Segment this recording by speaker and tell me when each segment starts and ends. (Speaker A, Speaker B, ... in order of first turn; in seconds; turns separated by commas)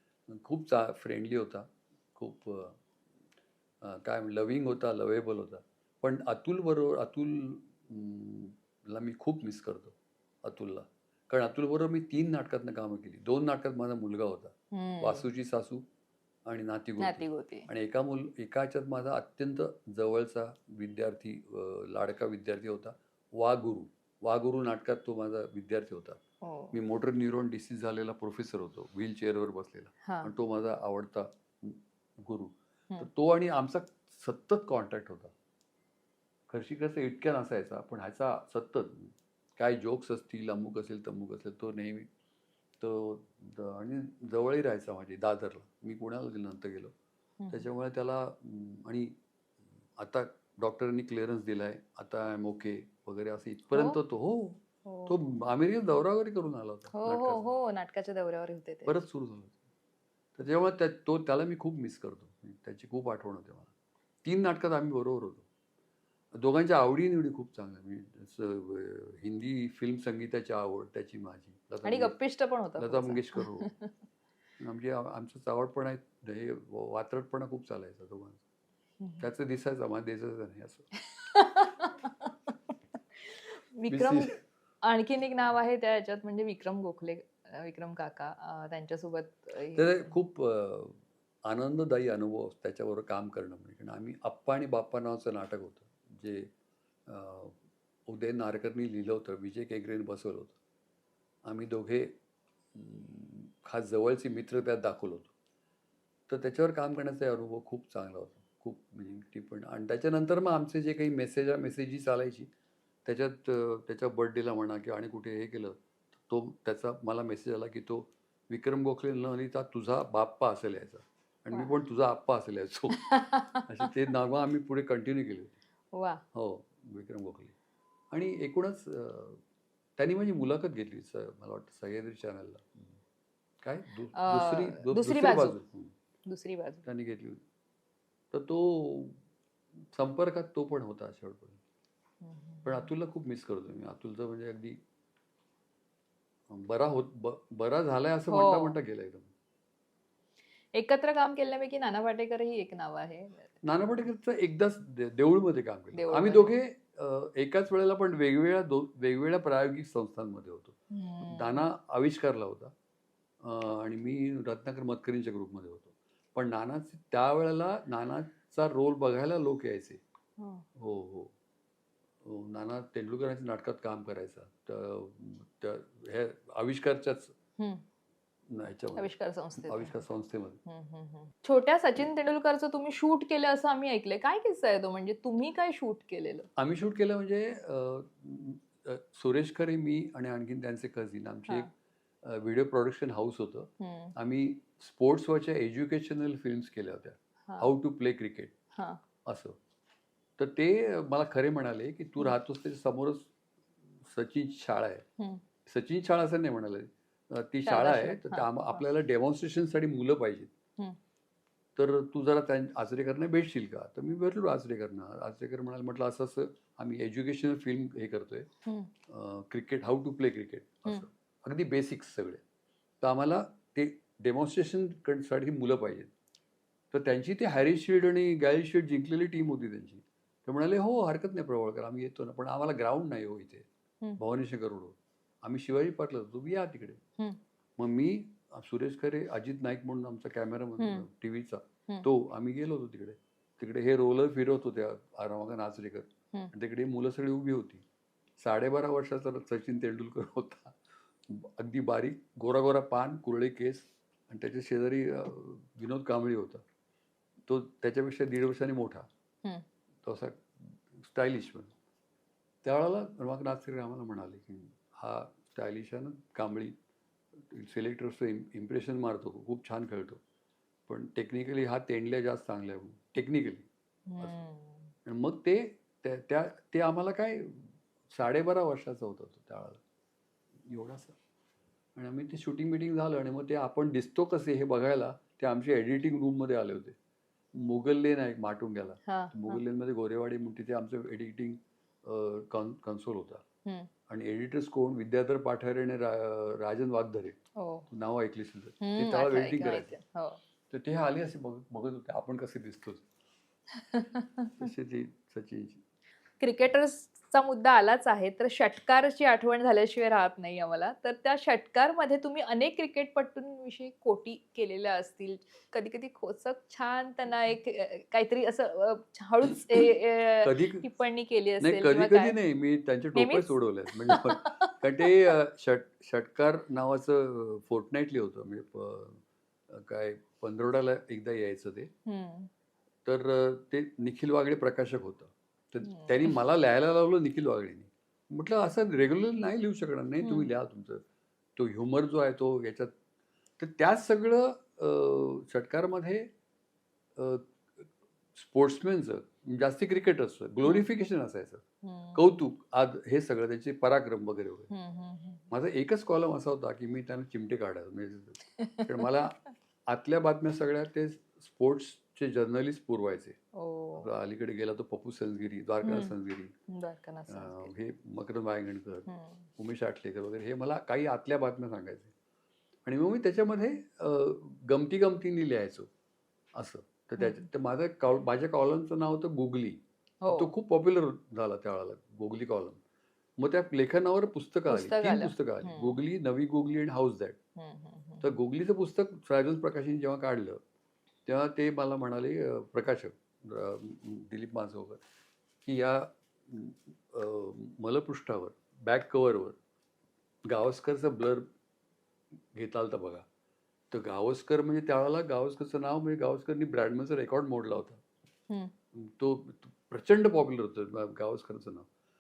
Speaker A: 0.3-2.8, Speaker A: 3.8-15.8, Speaker B: 14.7-15.3, Speaker A: 16.4-26.2, Speaker B: 17.0-17.7, Speaker B: 26.4-26.8, Speaker A: 26.7-35.3, Speaker B: 30.0-30.3, Speaker A: 36.5-42.1, Speaker A: 42.8-46.9, Speaker B: 47.4-47.7, Speaker A: 47.5-49.2, Speaker A: 50.0-57.5, Speaker B: 53.7-54.0, Speaker B: 54.9-55.2, Speaker B: 56.9-59.0, Speaker A: 58.9-59.5, Speaker A: 60.3-63.7, Speaker A: 64.2-65.5, Speaker A: 66.3-72.1, Speaker B: 71.8-73.9, Speaker A: 72.8-73.7, Speaker A: 74.6-78.4, Speaker B: 79.0-79.3, Speaker A: 79.2-80.9, Speaker B: 81.1-82.5, Speaker B: 83.2-90.1, Speaker A: 83.9-84.4, Speaker A: 89.7-96.5, Speaker A: 97.1-97.6, Speaker A: 98.1-100.5, Speaker A: 101.5-102.1, Speaker A: 102.7-105.3, Speaker A: 106.3-112.5, Speaker A: 113.0-125.5, Speaker B: 122.9-123.8, Speaker B: 125.9-126.2, Speaker A: 126.3-127.5, Speaker A: 128.1-129.4, Speaker A: 130.0-132.9, Speaker A: 133.6-135.9, Speaker B: 134.1-135.6, Speaker B: 136.2-136.8, Speaker A: 136.8-137.4, Speaker A: 138.3-139.2, Speaker A: 139.9-141.6, Speaker B: 142.2-142.9, Speaker A: 142.6-144.8, Speaker A: 146.5-149.3, Speaker B: 148.3-148.8, Speaker B: 150.7-153.5, Speaker A: 153.6-162.7, Speaker B: 155.9-156.6, Speaker B: 160.9-161.6, Speaker A: 163.4-170.0, Speaker B: 170.4-170.6, Speaker A: 170.8-171.3, Speaker A: 172.2-177.3, Speaker B: 177.6-177.8, Speaker A: 178.5-180.6, Speaker B: 178.9-180.0, Speaker B: 180.7-186.5, Speaker A: 186.6-191.7, Speaker A: 192.2-198.5, Speaker B: 193.8-194.1, Speaker B: 198.7-199.0, Speaker A: 199.2-199.6, Speaker A: 200.4-203.3, Speaker A: 204.0-205.0, Speaker A: 205.7-210.5, Speaker B: 207.7-208.8, Speaker A: 211.8-218.5, Speaker B: 218.6-218.9, Speaker A: 219.1-222.4, Speaker A: 223.0-226.1, Speaker A: 226.9-233.7, Speaker A: 234.2-237.0, Speaker A: 237.8-247.8, Speaker B: 240.8-241.1, Speaker A: 248.4-256.6, Speaker A: 257.5-259.1, Speaker A: 260.0-261.7, Speaker A: 262.6-266.8, Speaker A: 267.4-270.2, Speaker A: 270.9-273.7, Speaker B: 274.1-274.9, Speaker A: 275.0-279.8, Speaker A: 280.7-281.2, Speaker A: 281.9-286.9, Speaker A: 287.5-293.4, Speaker B: 289.1-289.6, Speaker B: 293.6-293.9, Speaker A: 294.1-297.4, Speaker B: 297.6-297.9, Speaker A: 297.9-299.9, Speaker B: 298.8-300.4, Speaker A: 300.7-303.0, Speaker B: 303.7-304.5, Speaker A: 304.6-305.8, Speaker B: 306.4-322.4, Speaker A: 319.5-320.8, Speaker A: 321.6-331.9, Speaker B: 323.1-324.7, Speaker B: 332.1-332.5, Speaker A: 333.0-341.0, Speaker B: 335.8-336.4, Speaker B: 340.2-340.5, Speaker A: 341.6-342.9, Speaker A: 343.6-346.3, Speaker A: 347.1-351.6, Speaker B: 351.8-352.2, Speaker A: 352.1-354.7, Speaker B: 354.7-355.4, Speaker A: 355.5-363.4, Speaker B: 358.6-359.1, Speaker B: 363.6-364.1, Speaker A: 364.0-366.5, Speaker B: 365.8-366.1, Speaker B: 366.7-367.7, Speaker A: 367.3-372.1, Speaker B: 369.1-369.5, Speaker A: 372.8-375.9, Speaker A: 376.5-382.8, Speaker B: 377.2-377.4, Speaker B: 380.2-380.5, Speaker A: 383.4-387.4, Speaker B: 384.7-386.0, Speaker B: 387.6-388.3, Speaker A: 388.2-390.6, Speaker A: 391.2-395.0, Speaker A: 395.6-399.6, Speaker A: 400.4-401.5, Speaker A: 402.5-403.2, Speaker A: 403.9-408.0, Speaker A: 408.9-411.9